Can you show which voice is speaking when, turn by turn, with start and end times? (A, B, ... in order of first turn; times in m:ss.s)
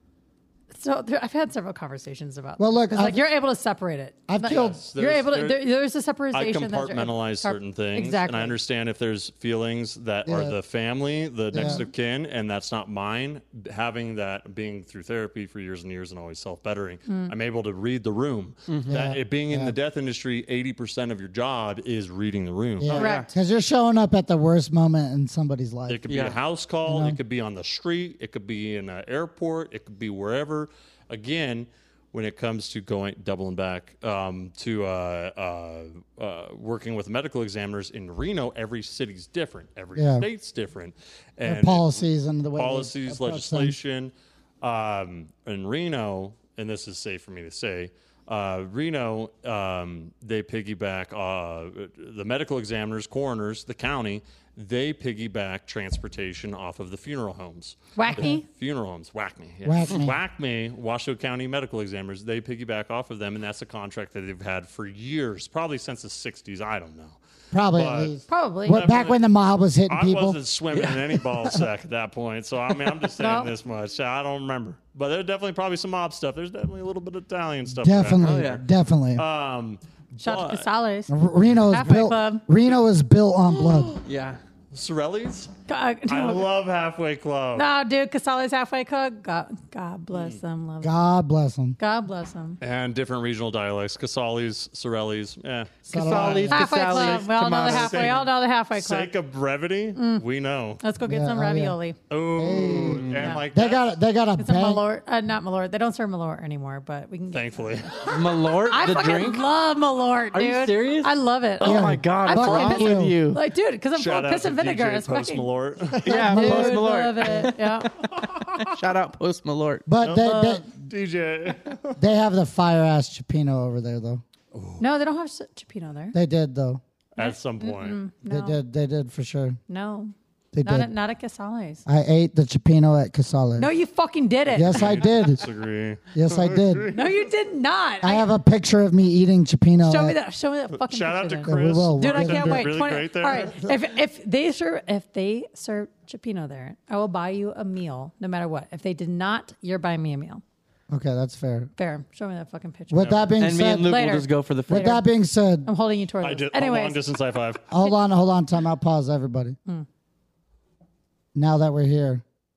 0:00.7-0:08.6 A
0:02.6-0:03.2 B
0:04.3-0:04.8 B
0:04.4-0:05.6 C
0:06.3-0:23.0 C
0:10.3-0:10.6 B
0:11.5-0:11.9 B
0:17.1-0:17.3 A
0:18.7-0:18.9 D
0:18.9-0:19.7 B
0:22.8-0:26.0 B
0:22.9-0:23.3 D
0:22.9-0:23.3 A
0:25.9-0:42.0 C
0:26.1-0:26.4 D
0:26.8-0:27.2 B
0:40.0-0:40.3 B
0:41.4-0:43.8 B
0:42.6-1:07.2 C
0:58.0-0:58.4 A
0:59.6-1:00.2 B
1:07.5-1:10.4 B
1:07.7-1:09.2 C
1:08.3-1:08.8 A
1:09.9-1:18.5 C
1:13.2-1:13.5 A
1:17.7-1:19.2 B
1:18.2-1:18.6 D
1:19.2-1:20.7 C
1:20.2-1:21.2 A
1:21.1-1:24.0 B
1:21.7-1:22.4 A
1:24.0-1:24.4 D
1:24.7-1:25.5 C
1:25.7-1:26.4 A
1:26.1-1:27.7 C
1:27.6-1:30.9 A
1:30.8-1:31.8 B
1:31.8-1:32.6 A
1:32.6-1:40.8 C
1:35.9-1:36.7 B
1:35.9-1:38.2 D
1:36.5-1:39.1 A
1:40.0-1:40.2 A
1:40.8-1:42.0 A
1:41.0-1:41.8 B
1:42.1-1:43.8 C
1:42.4-1:44.8 B
1:42.5-1:43.3 D
1:44.4-1:48.1 A
1:47.3-1:48.4 C
1:48.1-1:49.4 D
1:48.6-1:55.5 A
1:50.3-1:53.4 D
1:51.6-1:53.2 B
1:53.9-1:56.2 C
1:56.0-1:57.5 B
1:56.0-1:59.8 D
1:56.0-1:57.9 A
1:58.0-1:58.7 C
1:59.9-2:00.7 B
2:00.0-2:02.0 C
2:00.2-2:00.6 A
2:02.0-2:04.2 B
2:04.5-2:04.8 C
2:04.8-2:06.2 A
2:06.1-2:06.8 B
2:07.2-2:08.0 C
2:07.2-2:08.6 A
2:08.3-2:09.6 B
2:09.7-2:11.8 A
2:10.5-2:10.9 B
2:11.9-2:13.7 B
2:13.6-2:15.3 A
2:14.5-2:15.4 B
2:14.6-2:17.3 C
2:16.1-2:16.9 B
2:16.9-2:18.3 A
2:18.0-2:20.2 B
2:19.8-2:30.4 A
2:20.7-2:23.6 C
2:21.4-2:22.8 B
2:30.9-2:31.7 B
2:31.8-2:35.0 A
2:32.9-2:34.0 B
2:33.0-2:33.3 C
2:33.4-2:35.0 D
2:34.7-2:35.7 B
2:35.6-2:37.1 A
2:36.2-2:37.7 C
2:37.7-2:39.6 B
2:41.4-2:42.2 B